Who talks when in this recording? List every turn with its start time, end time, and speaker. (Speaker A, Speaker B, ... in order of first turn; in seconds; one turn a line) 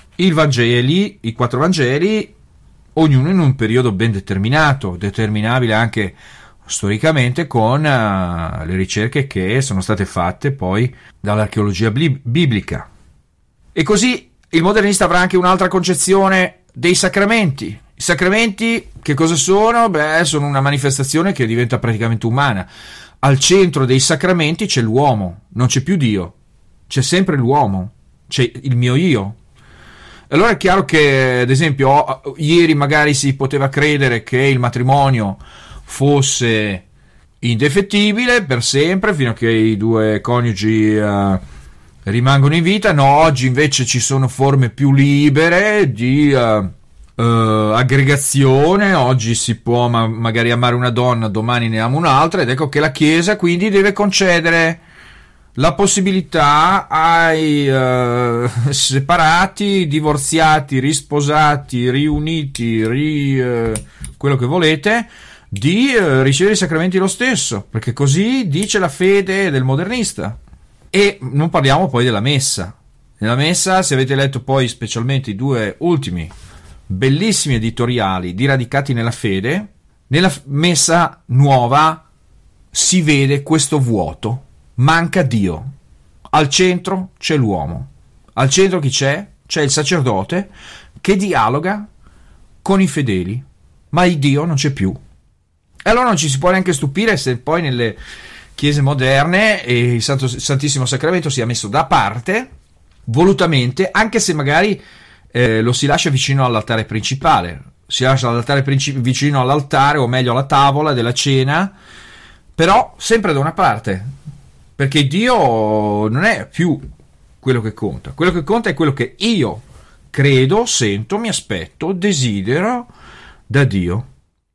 Speaker A: 0.2-2.3
Speaker A: 3.0-12.9
Speaker A: 13.8-22.7
Speaker A: 23.2-26.4
Speaker A: 26.9-29.4
Speaker A: 30.3-36.9
Speaker A: 37.4-41.4
Speaker A: 42.1-54.8
Speaker A: 55.6-70.4
Speaker A: 70.9-76.3
Speaker A: 76.9-82.0
Speaker A: 82.7-85.7
Speaker A: 86.3-91.9
Speaker A: 92.6-95.0
Speaker A: 95.8-98.0
Speaker A: 98.6-102.5
Speaker A: 103.1-104.8
Speaker A: 105.3-111.7
Speaker A: 112.6-114.1
Speaker A: 114.8-116.8
Speaker A: 117.4-122.9
Speaker A: 123.5-124.1